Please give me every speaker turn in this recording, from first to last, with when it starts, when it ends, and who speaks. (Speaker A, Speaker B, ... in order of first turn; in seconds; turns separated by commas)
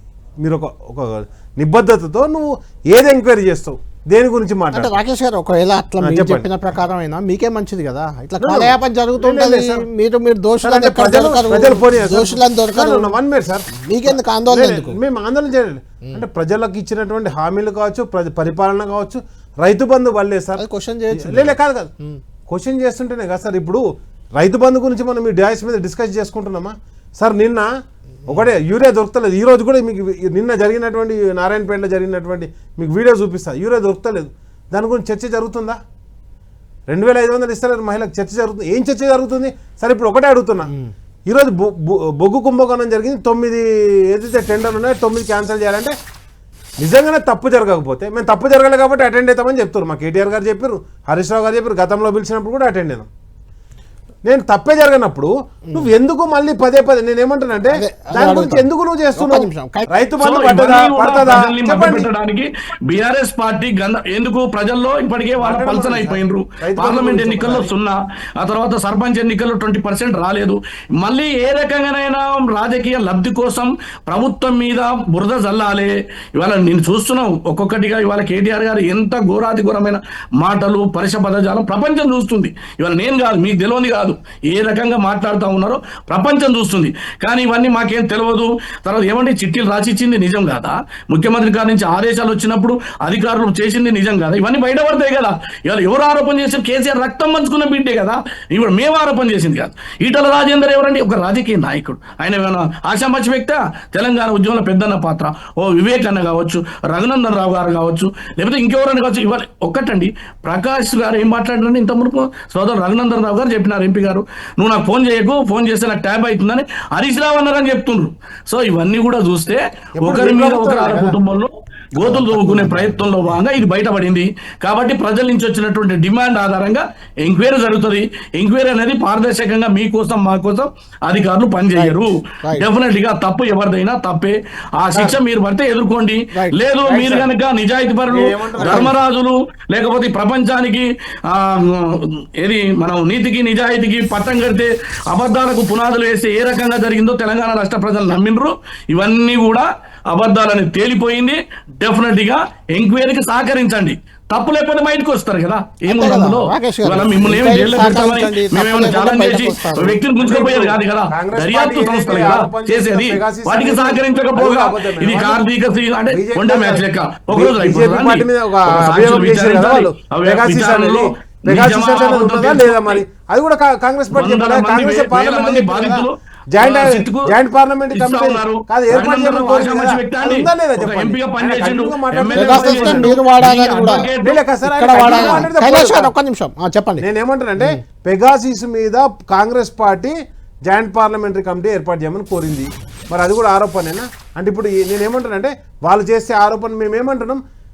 Speaker A: 0.4-4.9, Speaker B: 4.7-13.2, Speaker A: 6.0-6.5, Speaker A: 8.4-9.8, Speaker A: 10.6-21.9, Speaker B: 13.8-15.0, Speaker B: 20.6-22.2, Speaker A: 22.5-23.8, Speaker A: 24.4-27.7, Speaker A: 28.3-35.8, Speaker A: 36.9-40.7, Speaker A: 41.3-45.9, Speaker A: 46.8-53.1, Speaker A: 54.2-62.1, Speaker B: 57.7-59.9, Speaker C: 60.2-173.0, Speaker A: 65.4-67.7, Speaker A: 120.0-121.2, Speaker A: 122.0-123.0, Speaker B: 131.7-132.7, Speaker A: 134.9-135.2, Speaker B: 136.3-136.6, Speaker A: 136.8-137.3, Speaker A: 138.1-138.9, Speaker B: 138.6-138.9, Speaker B: 155.8-160.0, Speaker A: 160.1-165.4, Speaker A: 166.1-183.2, Speaker C: 174.1-177.3, Speaker C: 177.9-184.4, Speaker B: 182.3-184.1, Speaker A: 184.2-186.1, Speaker B: 184.7-187.0, Speaker C: 185.0-185.5, Speaker A: 187.0-190.1, Speaker A: 190.7-197.4